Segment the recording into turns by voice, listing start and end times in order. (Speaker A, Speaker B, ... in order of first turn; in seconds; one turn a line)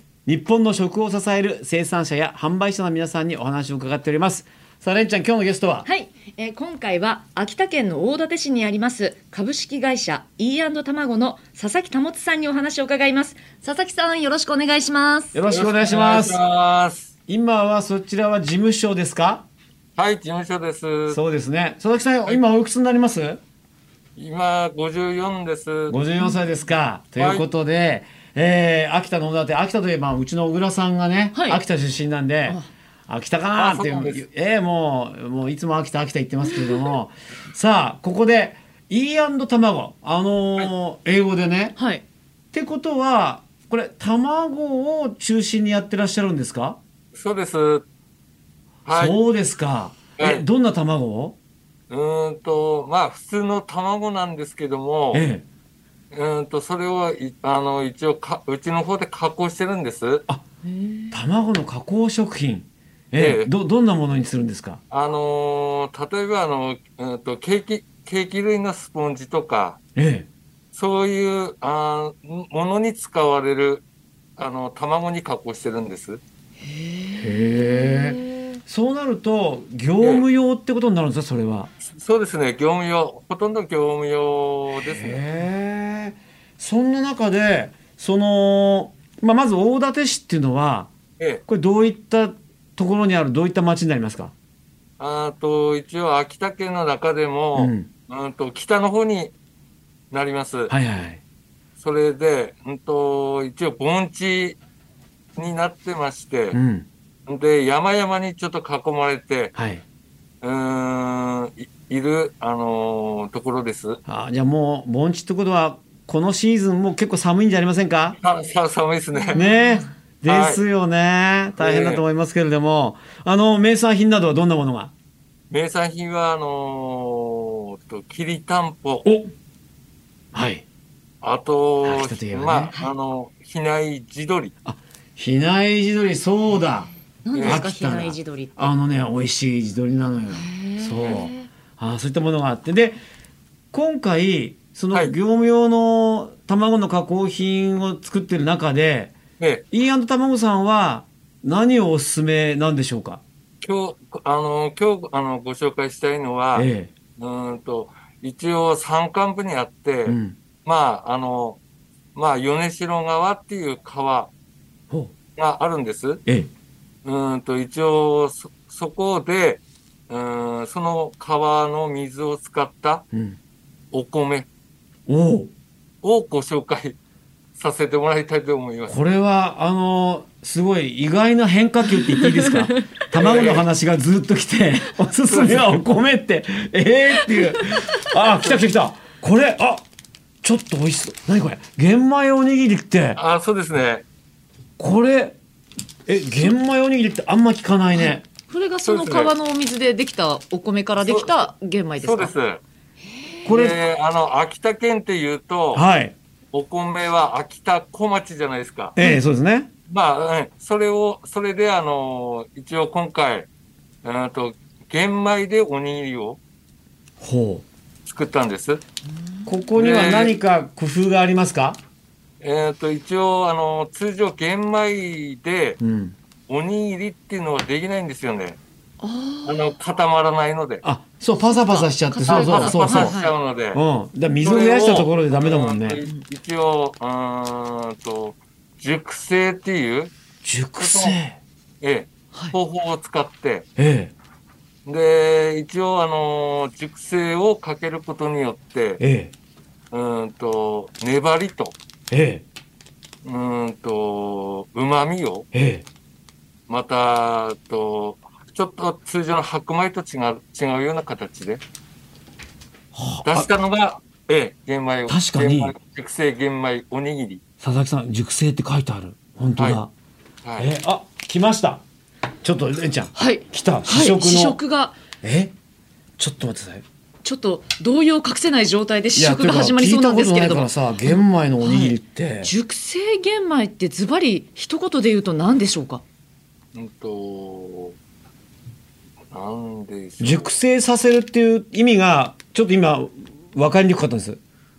Speaker A: 0.3-5.9
Speaker B: 5.8-15.4
Speaker A: 15.3-16.4
Speaker C: 15.5-17.1
Speaker A: 17.3-19.5
Speaker C: 20.0-21.2
Speaker A: 21.1-23.4
Speaker C: 24.2-26.0
Speaker A: 25.9-41.8
Speaker C: 27.2-27.5
Speaker B: 31.3-31.6
Speaker C: 33.6-34.3
Speaker B: 36.6-36.9
Speaker B: 41.8-42.0
Speaker A: 42.5-46.8
Speaker C: 47.1-47.9
Speaker C: 48.9-49.2
Speaker A: 48.9-51.4
Speaker C: 50.2-50.5
Speaker C: 51.9-55.3
Speaker A: 55.1-55.5
Speaker C: 56.1-60.3
Speaker B: 60.6-61.1
Speaker A: 61.1-64.8
Speaker C: 63.1-63.5
Speaker C: 64.9-69.8
Speaker A: 70.0-70.3
Speaker C: 70.7-73.8
Speaker C: 74.4-76.2
Speaker B: 76.6-78.6
Speaker A: 77.2-81.7
Speaker C: 80.0-80.3
Speaker C: 81.8-85.2
Speaker A: 84.8-90.9
Speaker A: 91.5-94.3
Speaker C: 95.0-99.3
Speaker A: 97.5-97.9
Speaker C: 100.1-100.7
Speaker A: 100.7-101.2
Speaker C: 101.8-104.6
Speaker C: 105.4-106.6
Speaker A: 106.5-106.9
Speaker C: 107.3-109.5
Speaker A: 109.5-109.8
Speaker C: 110.4-114.0
Speaker A: 114.1-118.2
Speaker C: 118.2-119.4
Speaker B: 119.2-119.9
Speaker A: 119.3-124.9
Speaker C: 120.2-120.6
Speaker C: 121.6-122.0
Speaker C: 125.5-129.1
Speaker A: 129.1-129.3
Speaker A: 130.3-130.7
Speaker C: 131.2-134.5
Speaker A: 131.8-132.7
Speaker A: 134.7-136.9
Speaker B: 137.2-138.7
Speaker C: 137.3-137.6
Speaker A: 137.4-143.0
Speaker B: 140.3-141.5
Speaker A: 143.7-149.2
Speaker A: 149.7-153.2
Speaker C: 153.6-161.6
Speaker A: 156.6-156.9
Speaker A: 160.1-160.4
Speaker C: 162.2-164.3
Speaker C: 165.4-166.2
Speaker C: 167.1-173.1
Speaker A: 173.1-173.4
Speaker C: 173.9-174.5
Speaker A: 175.1-175.5
Speaker C: 176.0-177.0
Speaker C: 177.6-179.0
Speaker A: 178.9-189.8
Speaker B: 182.0-182.9
Speaker C: 183.1-183.7
Speaker C: 185.2-185.8
Speaker B: 187.2-187.9
Speaker A: 190.4-193.2
Speaker C: 193.2-194.0
Speaker A: 194.8-195.4
Speaker A: 196.1-198.2
Speaker B: 197.9-202.3
Speaker C: 198.8-199.3
Speaker C: 201.0-202.6
Speaker B: 203.1-203.5
Speaker A: 203.4-203.8
Speaker C: 203.5-205.8
Speaker A: 205.7-206.2
Speaker C: 206.5-209.0
Speaker A: 209.0-209.7
Speaker C: 209.9-213.5
Speaker C: 214.0-216.4
Speaker A: 217.2-217.7
Speaker C: 218.1-218.8
Speaker A: 219.5-221.8
Speaker C: 219.8-220.4
Speaker C: 222.4-225.8
Speaker A: 225.8-226.2
Speaker C: 226.5-228.6
Speaker B: 229.0-229.7
Speaker C: 229.5-230.8
Speaker A: 230.8-233.2
Speaker B: 231.4-233.3
Speaker C: 232.3-233.8
Speaker A: 233.7-236.0
Speaker C: 234.4-240.1
Speaker A: 240.4-241.4
Speaker C: 240.8-241.2
Speaker C: 241.8-243.7
Speaker A: 243.8-244.1
Speaker C: 244.9-249.0
Speaker A: 249.0-249.3
Speaker C: 249.9-251.8
Speaker A: 252.1-252.4
Speaker C: 253.2-255.5
Speaker A: 255.5-255.9
Speaker C: 256.7-261.6
Speaker A: 262.9-263.5
Speaker C: 263.3-267.4
Speaker A: 265.1-265.8
Speaker A: 267.6-269.9
Speaker C: 269.6-269.8
Speaker C: 270.4-270.7
Speaker A: 270.6-271.8
Speaker A: 272.4-274.6
Speaker B: 273.1-275.0
Speaker A: 275.2-275.5
Speaker A: 276.2-276.9
Speaker B: 277.2-286.0
Speaker A: 279.2-282.5
Speaker C: 286.7-288.0
Speaker C: 289.3-290.5
Speaker A: 290.2-294.4